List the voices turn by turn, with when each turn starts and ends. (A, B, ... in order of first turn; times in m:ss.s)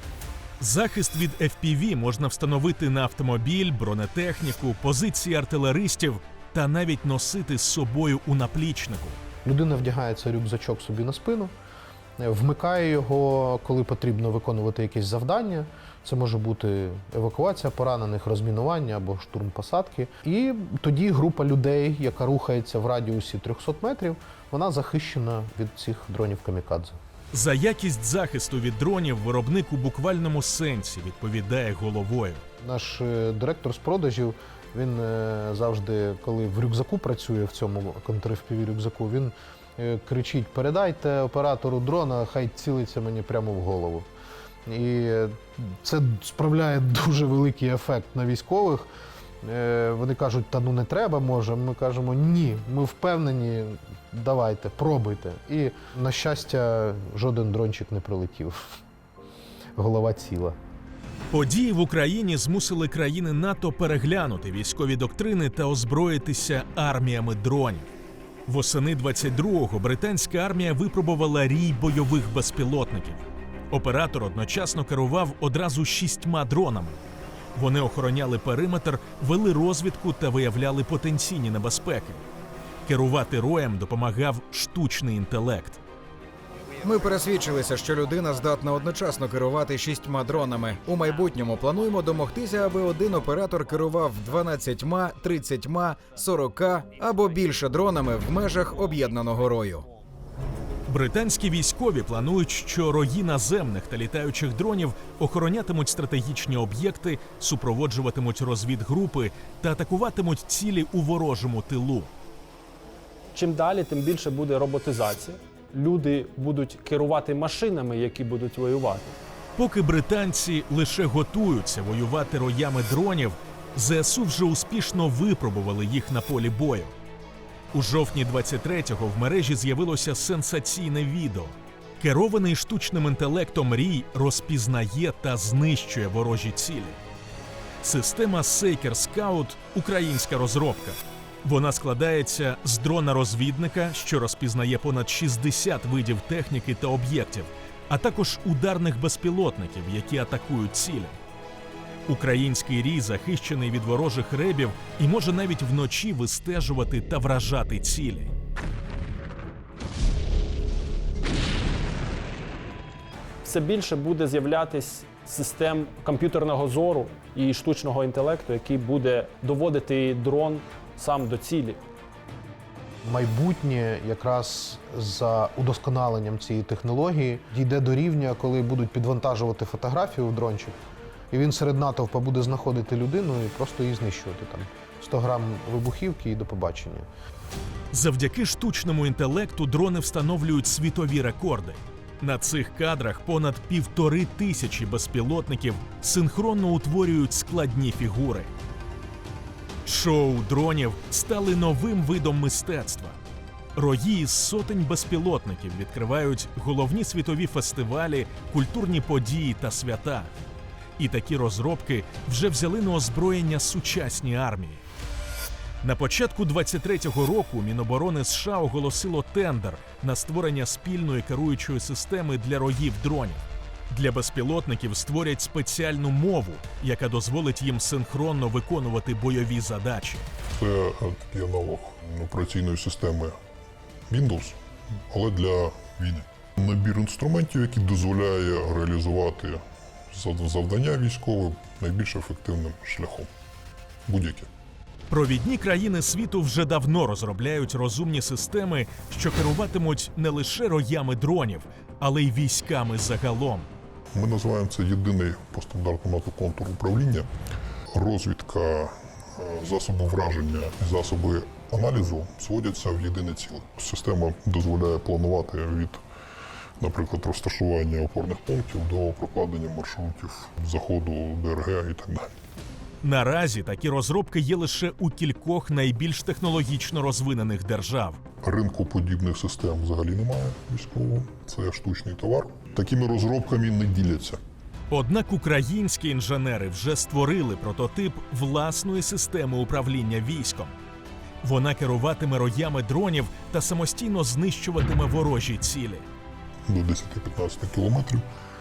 0:00.6-0:09.2 A
0:09.4-0:11.5 B
0:12.2-0:27.0 B
0:27.3-0:32.4 A
0:32.6-0:44.1 B
0:44.7-0:48.9 B
0:49.4-0:58.6 B
0:59.8-1:00.6 B
1:01.3-1:07.9 A
1:08.5-1:17.0 A
1:17.6-1:22.2 A
1:22.9-1:25.8 A
1:26.8-1:39.9 C
1:40.9-1:52.1 A
1:53.3-1:59.2 D
1:59.6-2:06.9 A
2:07.7-2:17.0 A
2:17.8-2:31.2 A
2:32.1-2:38.3 A
2:43.4-2:51.8 D
2:53.0-3:00.8 B
3:01.3-3:07.1 B
3:07.9-3:18.5 A
3:19.8-3:23.2 A
3:23.8-3:30.3 A
3:31.0-3:34.8 A
3:35.8-3:50.3 A
3:50.5-3:53.4 E
3:54.1-3:54.6 E
3:55.1-4:03.3 E
4:04.1-4:04.5 E
4:05.1-4:13.7 A
4:14.1-4:17.3 E
4:17.9-4:26.0 E
4:26.8-4:32.3 E
4:33.0-4:38.2 A
4:38.4-4:44.4 E
4:44.9-4:50.8 A
4:51.4-4:56.1 A
4:56.7-4:58.3 E